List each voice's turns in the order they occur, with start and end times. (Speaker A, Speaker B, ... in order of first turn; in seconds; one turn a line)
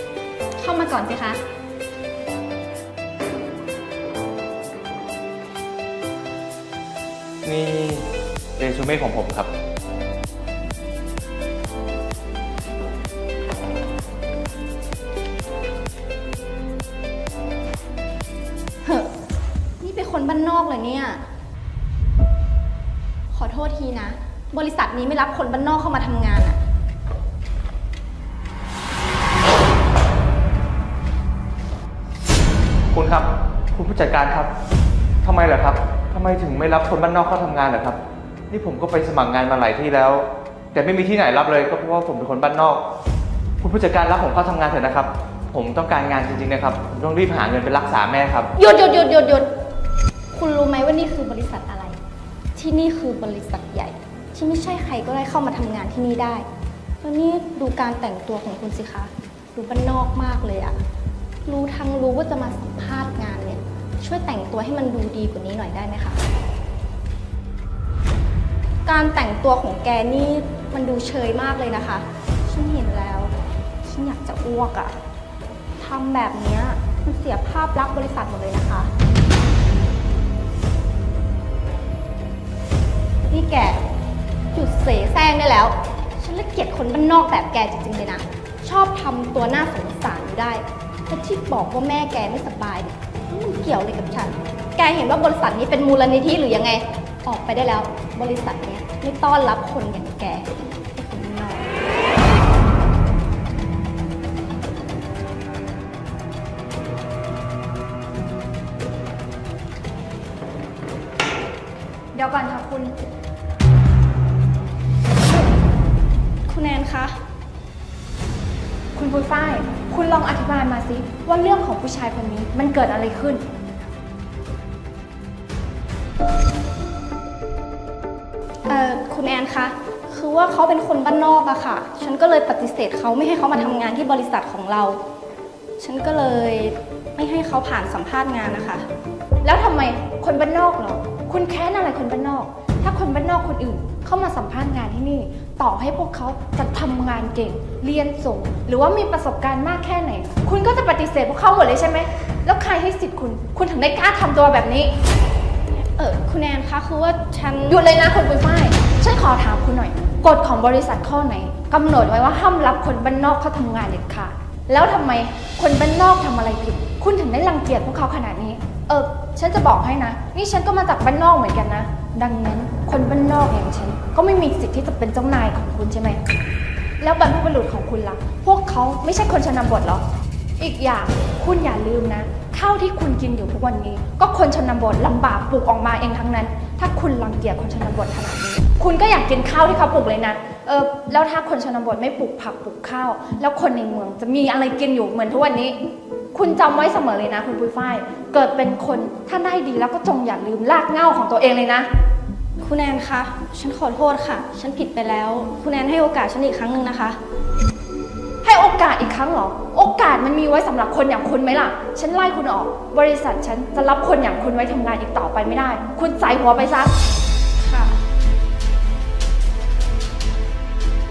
Speaker A: 0.6-1.4
Speaker B: 7.4-9.5
Speaker A: 18.8-19.1
Speaker A: 19.8-21.2
Speaker A: 23.3-26.6
Speaker B: 32.9-34.5
Speaker B: 35.2-38.0
Speaker B: 38.5-42.8
Speaker B: 43.6-48.5
Speaker A: 48.6-49.5
Speaker A: 50.3-52.0
Speaker A: 52.5-56.5
Speaker A: 57.0-60.8
Speaker A: 61.5-66.2
Speaker A: 68.8-75.0
Speaker A: 75.8-78.9
Speaker A: 83.3-83.8
Speaker A: 84.5-101.8
Speaker C: 112.1-113.0
Speaker A: 116.5-117.2
Speaker C: 119.0-123.5
Speaker A: 128.7-135.0
Speaker A: 135.8-138.9
Speaker C: 139.4-155.0
Speaker A: 155.8-157.9
Speaker C: 157.7-176.2
Speaker C: 177.0-180.0
Speaker C: 180.6-195.8
Speaker C: 196.3-201.9
Speaker A: 202.6-207.2
Speaker C: 208.4-216.9
Speaker A: 217.6-217.9